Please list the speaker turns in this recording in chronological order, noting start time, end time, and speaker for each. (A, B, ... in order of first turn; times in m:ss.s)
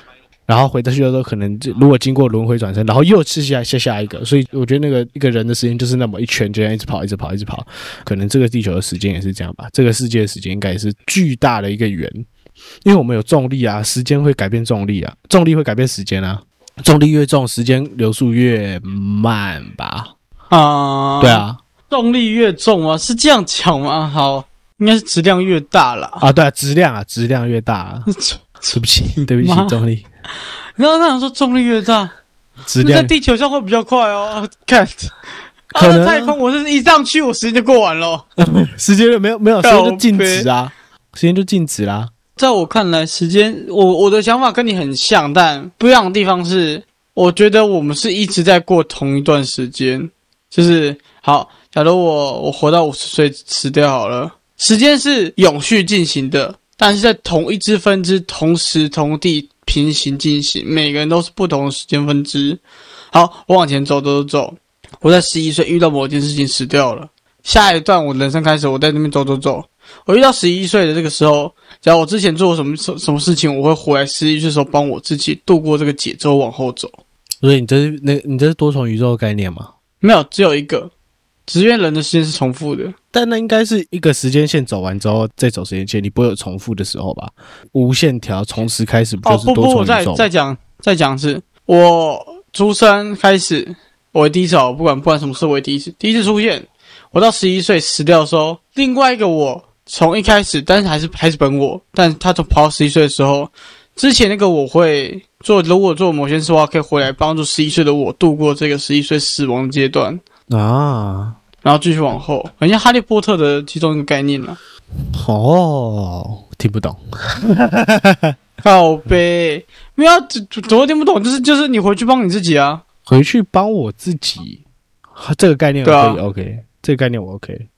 0:00.5-0:12.2 A
0:12.8-0:20.1 A
0:20.5-0:26.2 B
0:21.2-0:21.6 A
0:26.2-0:28.1 A
0:28.1-0:29.8 B
0:28.7-0:30.0 A
0:30.8-0:32.1 B
0:32.7-0:33.1 A
0:32.8-0:35.1 B
0:35.7-0:38.2 B
0:35.7-0:36.3 A
0:38.4-0:42.1 A
0:39.6-0:40.5 B
0:42.4-1:17.0 B
1:17.4-1:19.7 A
1:20.0-1:20.9 B
1:21.5-1:22.9 B
1:23.1-1:30.3 A
1:29.2-1:50.2 B
1:50.5-1:51.4 A
1:51.6-1:54.6 B
1:55.1-1:58.3 A
1:58.6-2:02.8 B
2:03.0-2:04.6 A
2:05.1-2:07.7 A
2:05.8-2:06.2 B